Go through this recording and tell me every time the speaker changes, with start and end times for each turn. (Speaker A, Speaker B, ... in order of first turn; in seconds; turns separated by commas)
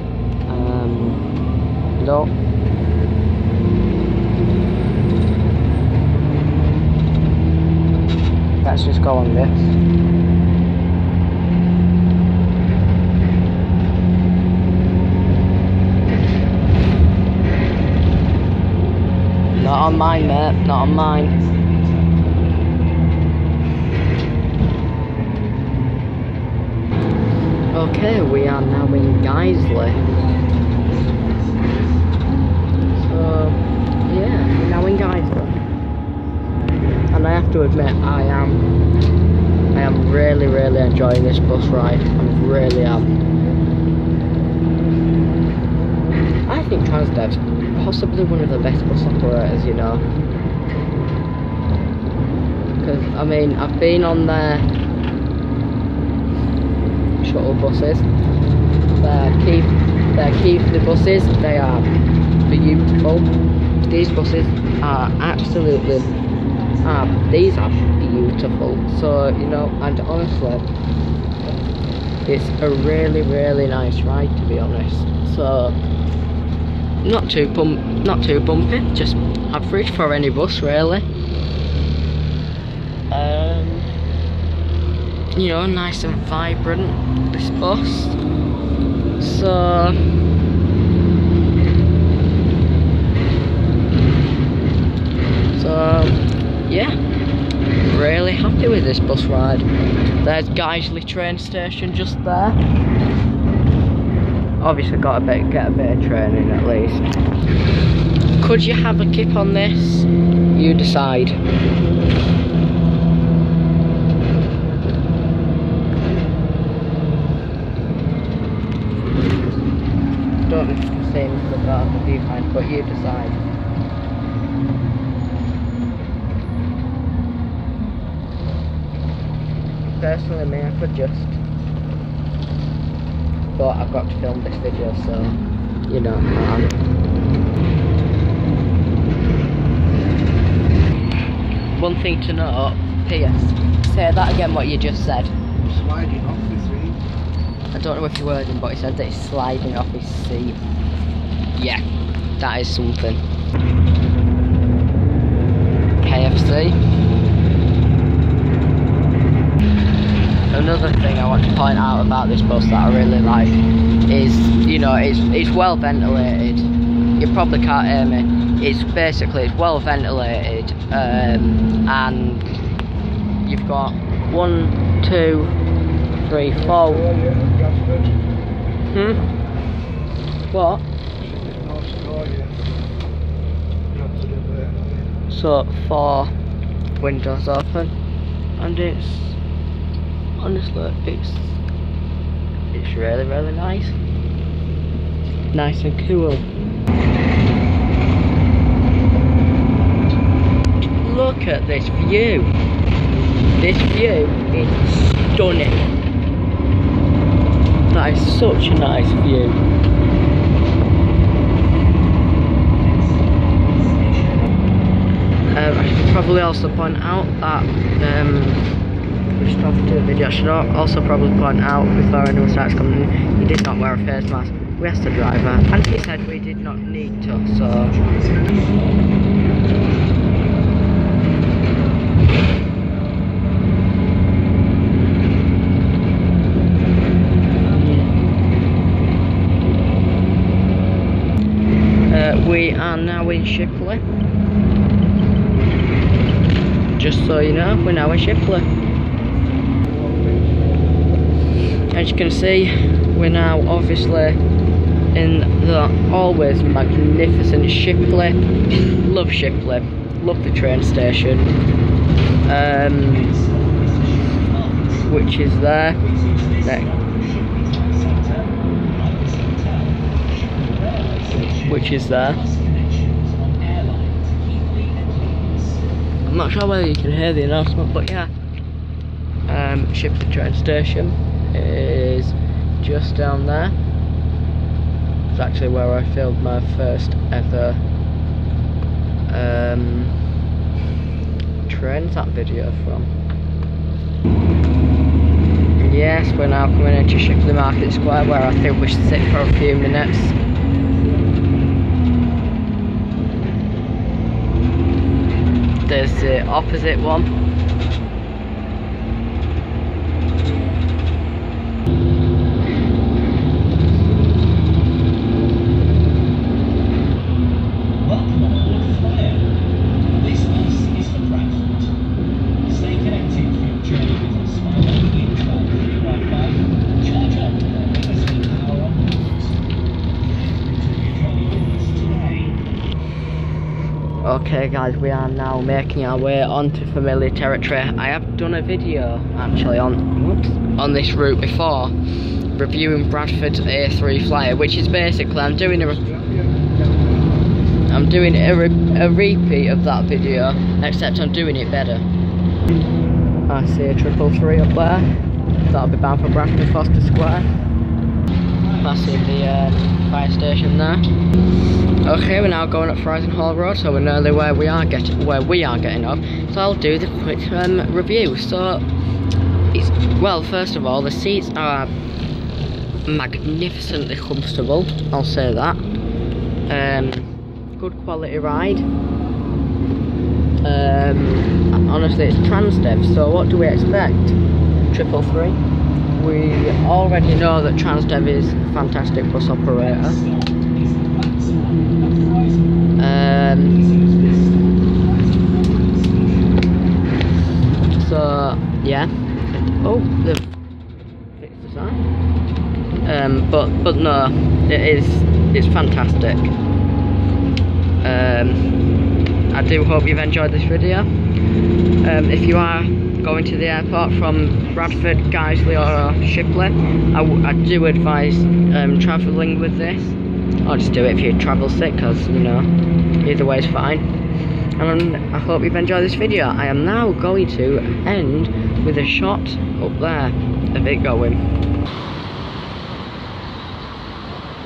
Speaker A: 0.5-1.2, Speaker A: 2.0-2.3, Speaker A: 8.6-9.8, Speaker B: 19.5-22.5, Speaker A: 19.6-21.3, Speaker A: 27.7-30.0, Speaker B: 29.9-32.0, Speaker A: 33.0-35.6, Speaker A: 37.1-38.7, Speaker A: 39.7-43.1, Speaker A: 46.5-50.0, Speaker A: 52.8-54.7, Speaker A: 57.2-58.1, Speaker A: 59.0-61.9, Speaker A: 62.5-63.3, Speaker A: 63.9-66.1, Speaker B: 65.3-67.9, Speaker A: 66.8-70.7, Speaker A: 72.2-75.8, Speaker A: 77.0-81.1, Speaker A: 83.1-83.9, Speaker A: 85.3-88.2, Speaker A: 89.2-90.0, Speaker A: 95.5-97.0, Speaker A: 97.8-99.7, Speaker A: 100.2-102.6, Speaker A: 104.6-107.1, Speaker A: 108.4-111.4, Speaker A: 120.5-123.4, Speaker A: 130.0-131.4, Speaker A: 133.6-136.8, Speaker A: 141.8-145.3, Speaker C: 145.6-147.0, Speaker A: 147.7-150.6, Speaker A: 151.6-151.8, Speaker A: 152.4-153.2, Speaker A: 156.0-156.8, Speaker A: 160.5-172.5, Speaker A: 173.4-175.6, Speaker A: 176.3-177.1, Speaker C: 176.5-178.3, Speaker A: 178.9-179.2, Speaker A: 180.5-180.8, Speaker C: 181.2-182.7, Speaker C: 183.9-185.1, Speaker A: 185.3-186.3, Speaker A: 187.0-187.9, Speaker A: 188.6-189.4, Speaker A: 190.4-191.6, Speaker A: 192.7-194.0, Speaker A: 195.5-196.5, Speaker A: 201.0-202.5, Speaker A: 203.6-205.9, Speaker A: 207.9-209.6, Speaker B: 212.8-214.5, Speaker A: 215.5-218.7, Speaker A: 219.4-228.0, Speaker B: 227.7-229.8, Speaker A: 237.7-238.1, Speaker A: 242.1-244.0, Speaker A: 247.0-248.7, Speaker C: 249.8-250.8, Speaker A: 251.9-254.4, Speaker A: 255.2-258.4, Speaker A: 259.0-261.5, Speaker A: 262.5-263.3, Speaker B: 263.0-265.3, Speaker A: 265.1-266.0, Speaker B: 266.0-275.9, Speaker A: 271.6-272.4, Speaker A: 276.2-278.3, Speaker A: 279.5-283.8, Speaker A: 285.3-287.8, Speaker A: 289.3-290.1, Speaker A: 291.7-293.1, Speaker A: 295.8-300.4, Speaker A: 305.9-307.3, Speaker B: 318.0-322.0, Speaker B: 322.6-329.6, Speaker B: 330.2-332.6, Speaker A: 334.2-341.9, Speaker A: 342.6-346.0, Speaker C: 345.7-347.5, Speaker A: 347.9-352.1, Speaker A: 353.5-355.1, Speaker A: 355.7-357.5, Speaker B: 358.6-359.2, Speaker A: 358.8-361.0, Speaker A: 362.0-368.8, Speaker A: 369.7-371.9, Speaker A: 373.1-375.8, Speaker A: 376.7-378.9, Speaker A: 380.6-384.4, Speaker A: 384.9-385.6, Speaker A: 386.1-390.2, Speaker B: 389.8-393.0, Speaker A: 393.0-393.8, Speaker B: 393.7-396.7, Speaker A: 398.0-399.1, Speaker A: 399.6-400.5, Speaker A: 401.4-402.1, Speaker A: 403.1-406.5, Speaker A: 408.0-408.7, Speaker A: 409.5-411.1, Speaker A: 412.0-422.7, Speaker B: 414.6-416.5, Speaker A: 423.2-424.1, Speaker A: 424.8-431.4